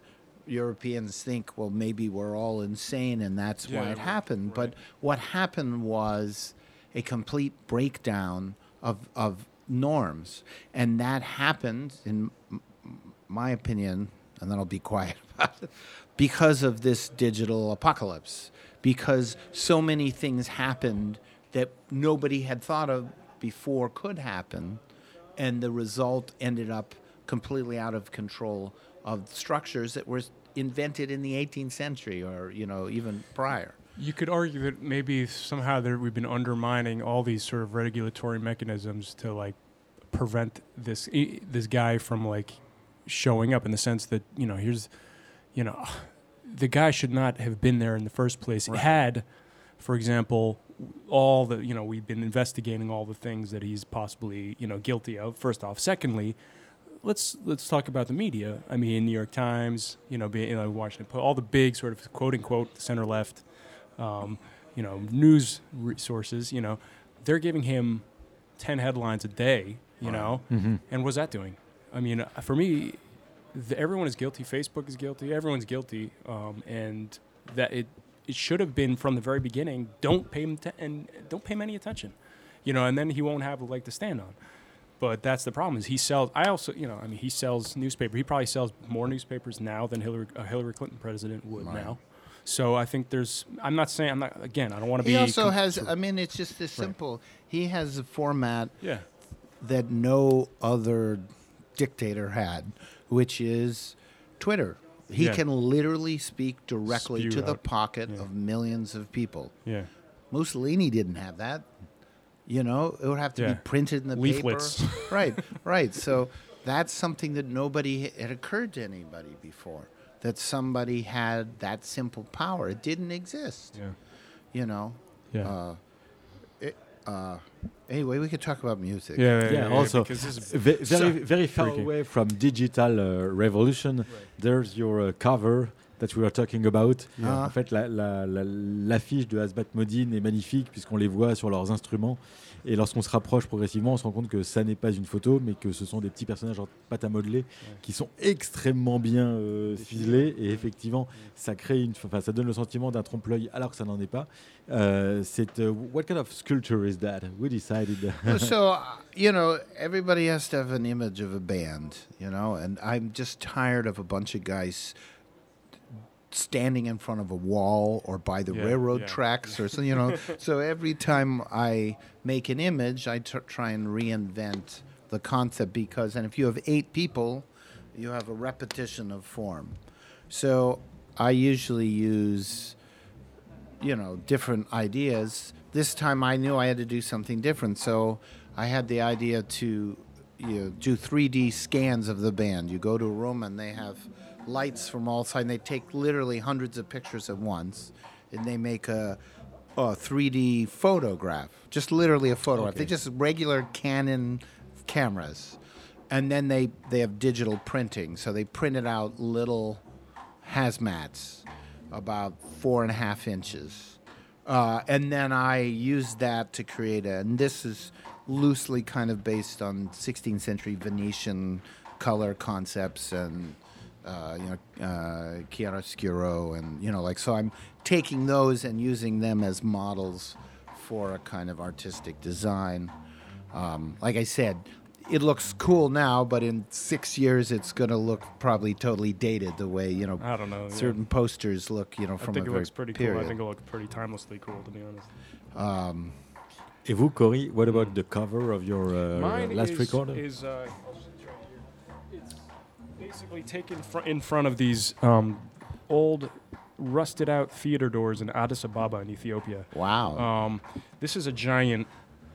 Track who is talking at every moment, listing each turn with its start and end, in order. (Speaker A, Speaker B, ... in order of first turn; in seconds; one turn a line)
Speaker A: 0.5-24.8
Speaker B: 3.7-4.7
Speaker A: 25.4-33.8
Speaker B: 34.0-84.4
Speaker A: 48.7-48.9
Speaker A: 70.0-70.4
Speaker C: 70.5-70.8
Speaker B: 85.0-96.0
Speaker A: 91.6-92.0
Speaker A: 95.0-99.0
Speaker B: 98.8-99.1
Speaker A: 99.6-109.6
Speaker B: 105.2-105.4
Speaker B: 106.9-108.2
Speaker A: 110.3-111.7
Speaker A: 112.5-123.8
Speaker B: 113.4-115.4
Speaker A: 124.5-125.8
Speaker A: 126.6-129.9
Speaker B: 129.2-131.9
Speaker C: 129.4-158.5
Speaker A: 137.2-137.5
Speaker B: 149.8-150.6
Speaker A: 158.2-164.9
Speaker A: 166.3-179.8
Speaker B: 168.5-170.3
Speaker A: 180.3-182.8
Speaker A: 183.8-199.2
Speaker A: 199.8-205.6
Speaker C: 202.5-202.9
Speaker A: 206.1-209.8
Speaker A: 210.4-232.9
Speaker A: 233.5-243.3
Speaker B: 240.2-241.0
Speaker B: 242.2-245.1
Speaker A: 245.5-246.1
Speaker C: 246.8-250.2
Speaker B: 247.7-247.9
Speaker B: 249.1-251.4
Speaker B: 252.1-252.4
Speaker B: 252.9-261.9
Speaker A: 259.7-260.2